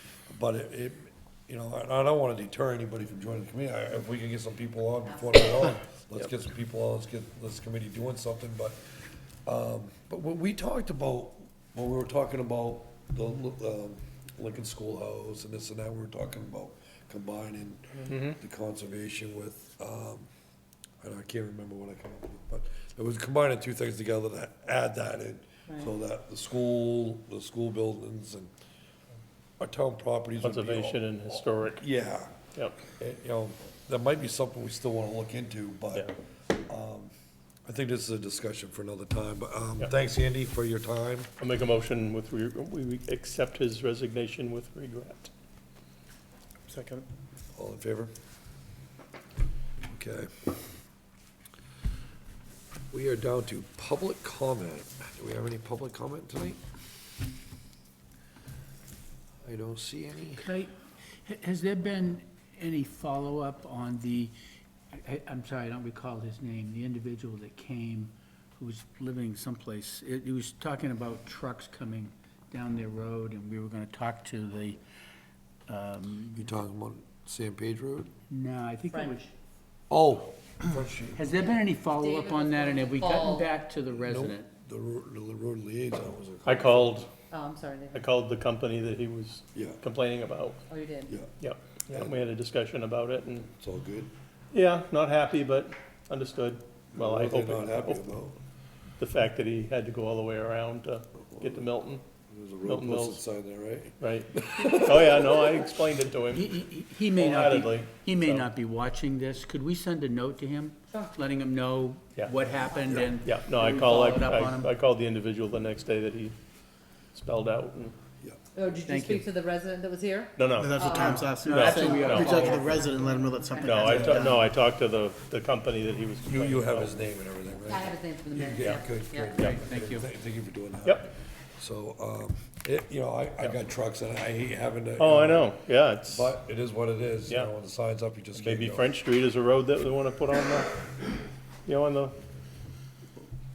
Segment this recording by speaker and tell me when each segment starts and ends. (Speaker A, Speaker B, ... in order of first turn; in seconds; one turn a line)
Speaker A: 0.3-8.8
Speaker B: 5.1-5.4
Speaker A: 9.5-20.3
Speaker C: 18.1-18.3
Speaker A: 21.0-28.5
Speaker A: 29.6-32.3
Speaker C: 30.4-31.9
Speaker A: 32.9-36.1
Speaker A: 36.7-37.1
Speaker A: 37.7-41.3
Speaker C: 41.4-45.3
Speaker D: 46.7-47.0
Speaker A: 47.5-48.1
Speaker A: 49.9-50.3
Speaker A: 52.9-56.6
Speaker A: 59.5-60.5
Speaker E: 60.4-60.7
Speaker E: 61.2-64.3
Speaker E: 64.9-74.8
Speaker E: 75.7-76.5
Speaker A: 76.3-78.1
Speaker E: 78.3-79.3
Speaker B: 78.9-79.2
Speaker A: 79.9-81.3
Speaker E: 81.1-84.5
Speaker B: 81.4-83.5
Speaker A: 83.9-87.0
Speaker C: 86.4-87.1
Speaker B: 87.3-88.1
Speaker C: 87.9-90.6
Speaker A: 89.5-89.8
Speaker B: 90.7-91.1
Speaker C: 91.4-93.5
Speaker A: 91.9-92.2
Speaker A: 93.5-94.1
Speaker C: 94.5-98.1
Speaker A: 96.9-98.4
Speaker C: 99.0-102.0
Speaker A: 101.3-105.3
Speaker C: 102.7-103.2
Speaker C: 104.0-108.5
Speaker E: 106.3-114.7
Speaker C: 113.2-116.3
Speaker C: 117.1-118.0
Speaker B: 118.5-124.4
Speaker E: 118.7-119.2
Speaker C: 120.4-122.4
Speaker D: 120.5-124.4
Speaker E: 120.9-122.7
Speaker C: 123.6-126.9
Speaker A: 126.2-135.5
Speaker B: 127.6-129.3
Speaker E: 129.4-130.1
Speaker C: 135.0-136.3
Speaker A: 136.1-138.9
Speaker C: 138.3-140.8
Speaker C: 141.7-142.2